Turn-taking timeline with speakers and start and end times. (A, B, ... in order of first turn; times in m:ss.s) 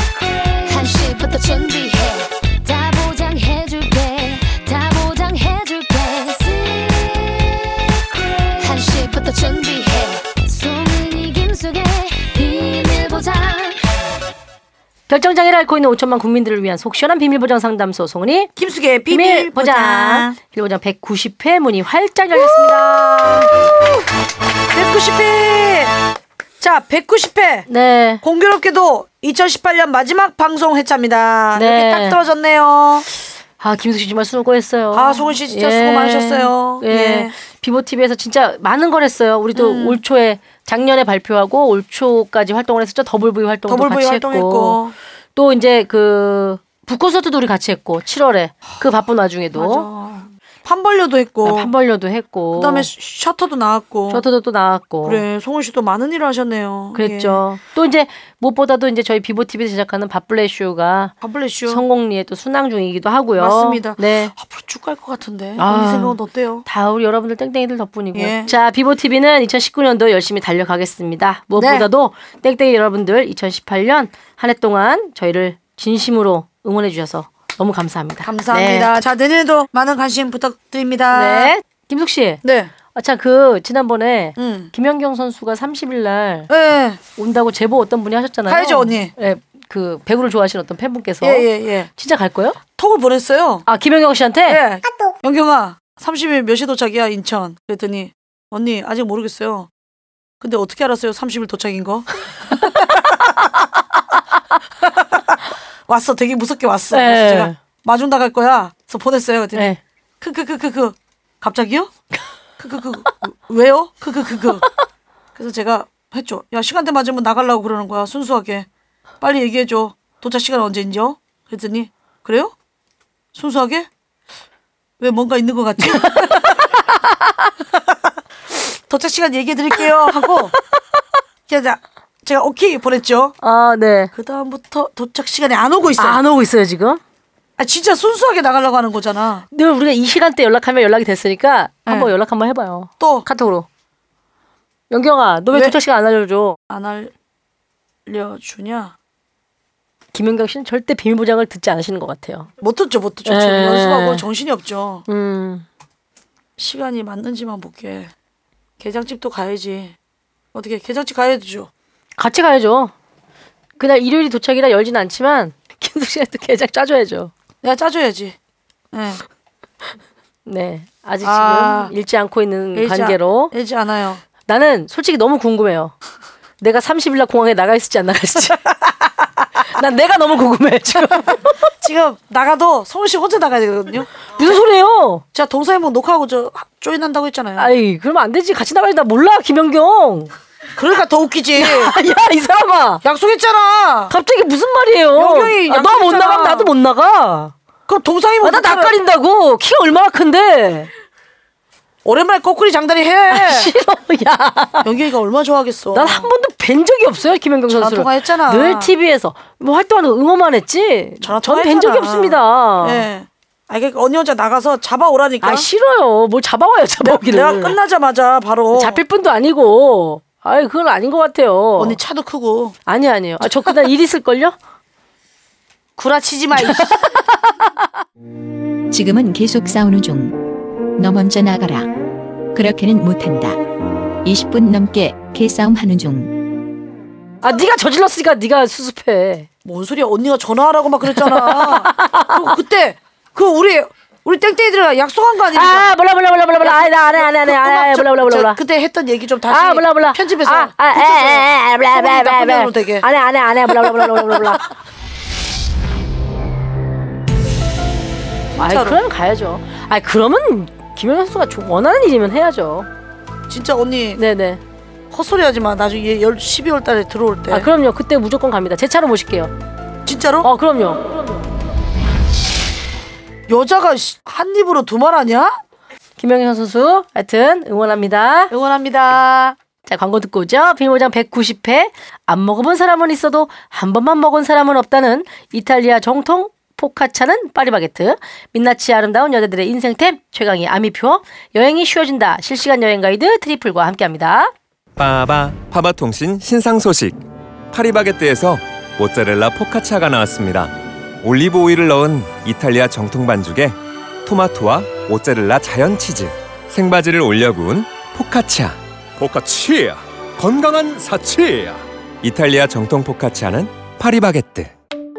0:00.6-0:07.8 A
0:08.6-0:13.8 A
0:15.1-0:18.5 B
0:18.6-0:20.3 C
0:19.1-0:23.4 B
0:22.4-0:23.5 C
0:24.7-0:26.0 C
0:26.6-0:27.7 C
0:27.7-0:28.2 B
0:28.2-0:33.1 C
0:31.6-0:32.2 B
0:33.6-0:44.8 B
0:34.9-0:37.3 C
0:39.6-0:40.0 C
0:43.7-0:45.0 C
0:45.4-0:49.9 B
0:49.5-0:51.7 C
0:51.4-0:52.9 B
0:52.5-0:54.2 C
0:54.1-0:55.2 B
0:55.0-0:57.4 C
0:57.0-1:01.2 B
1:01.2-1:01.8 C
1:01.7-1:04.3 B
1:03.4-1:06.6 C
1:05.6-1:19.0 B
1:08.2-1:08.5 C
1:11.6-1:11.9 C
1:18.2-1:21.5 C
1:21.1-1:22.4 B
1:22.4-1:22.7 C
1:23.0-1:26.5 B
1:24.4-1:24.7 C
1:26.5-1:27.0 C
1:27.2-1:32.6 B
1:28.5-1:29.1 C
1:31.2-1:31.9 C
1:32.8-1:33.7 C
1:33.7-1:34.6 B
1:34.5-1:39.7 C
1:40.4-1:43.3 C
1:42.5-1:43.2 B
1:44.9-1:51.9 C
1:46.9-1:47.6 B
1:52.6-1:54.7 C
1:55.4-1:58.7 C
1:59.2-2:02.5 C
2:03.4-2:03.9 C
2:05.0-2:06.6 C
2:05.9-2:07.3 B
2:08.9-2:10.6 C
2:09.8-2:10.3 B
2:11.5-2:13.4 C
2:13.4-2:14.1 B
2:14.1-2:16.2 C
2:16.0-2:17.0 B
2:17.6-2:19.4 C
2:19.5-2:23.7 B
2:23.0-2:23.3 C
2:24.9-2:26.6 B
2:26.7-2:27.1 C
2:28.1-2:28.9 C
2:30.1-2:32.5 B
2:32.6-2:35.0 C
2:33.3-2:34.2 B
2:35.1-2:35.6 B
2:36.6-2:38.1 C
2:38.8-2:40.0 C
2:40.5-2:41.7 C
2:42.2-2:42.9 B
2:43.8-2:47.3 B
2:47.6-2:48.4 C
2:48.9-2:49.2 C
2:50.5-2:53.5 B
2:51.2-2:51.9 C
2:52.8-2:54.2 C
2:54.5-2:56.0 B
2:56.6-2:58.6 B
2:59.7-3:01.5 B
3:01.8-3:04.1 C
3:04.4-3:05.2 B
3:05.3-3:07.7 C
3:07.6-3:10.3 B
3:10.8-3:11.9 C
3:11.6-3:13.0 B
3:13.0-3:14.1 C
3:14.1-3:17.5 B
3:15.2-3:16.7 C
3:17.9-3:18.9 C
3:18.4-3:20.9 B
3:22.0-3:23.7 C
3:23.3-3:24.9 B
3:24.8-3:26.3 C
3:25.9-3:33.0 B
3:27.7-3:28.9 C
3:31.2-3:35.7 C
3:35.4-3:37.8 B
3:37.0-3:39.0 C
3:38.7-3:42.0 B
3:41.8-3:42.8 C
3:42.9-3:44.6 B
3:43.4-3:43.9 C
3:46.0-3:47.1 C
3:46.7-3:47.7 B
3:48.9-3:50.4 D
3:51.0-3:51.9 D
3:52.5-3:53.6 D
3:54.2-3:56.3 D
3:57.4-3:59.5 B
3:59.6-4:05.9 C
4:01.1-4:02.5 B
4:05.6-4:08.6 B
4:06.6-4:13.1 C
4:09.5-4:14.7 B
4:14.2-4:14.4 C
4:18.6-4:19.0 C
4:18.6-4:22.9 B
4:23.5-4:24.2 C
4:24.2-4:24.6 B
4:25.1-4:27.7 C
4:27.5-4:29.5 B
4:30.1-4:30.5 C
4:30.4-4:31.1 B
4:33.5-4:35.6 C
4:36.2-4:38.5 B
4:38.5-4:39.6 C
4:39.9-4:54.5 B
4:55.0-4:57.2 E
4:57.7-5:14.7 E